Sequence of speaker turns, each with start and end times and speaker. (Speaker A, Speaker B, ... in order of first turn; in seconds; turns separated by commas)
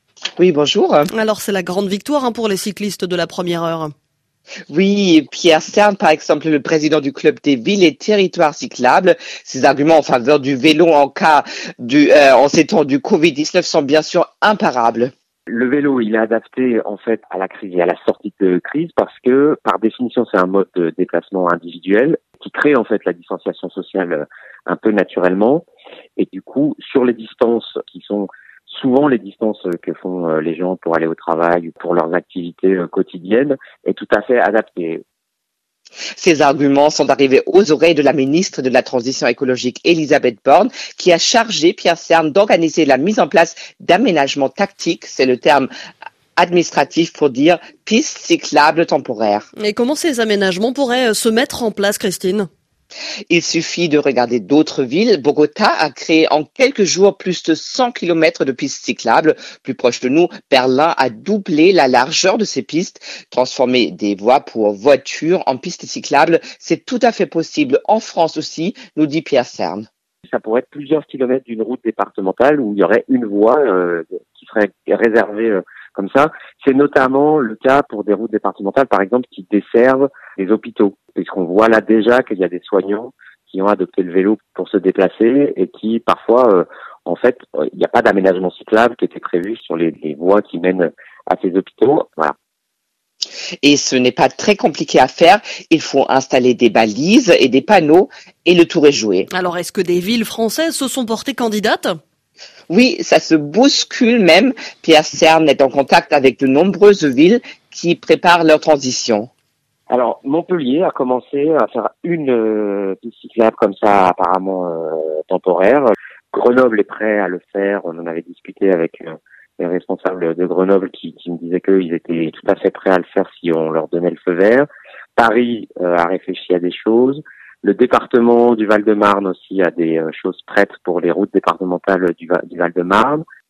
Speaker A: 0.4-1.1, Speaker B: 1.1-3.9, Speaker A: 4.7-15.1, Speaker C: 15.5-25.6, Speaker C: 26.2-35.0, Speaker A: 36.2-45.7, Speaker A: 46.4-49.5, Speaker B: 49.6-52.5, Speaker A: 53.3-69.8, Speaker C: 70.3-92.3, Speaker A: 93.6-99.3, Speaker B: 99.3-101.9, Speaker A: 102.7-109.3, Speaker C: 109.9-133.2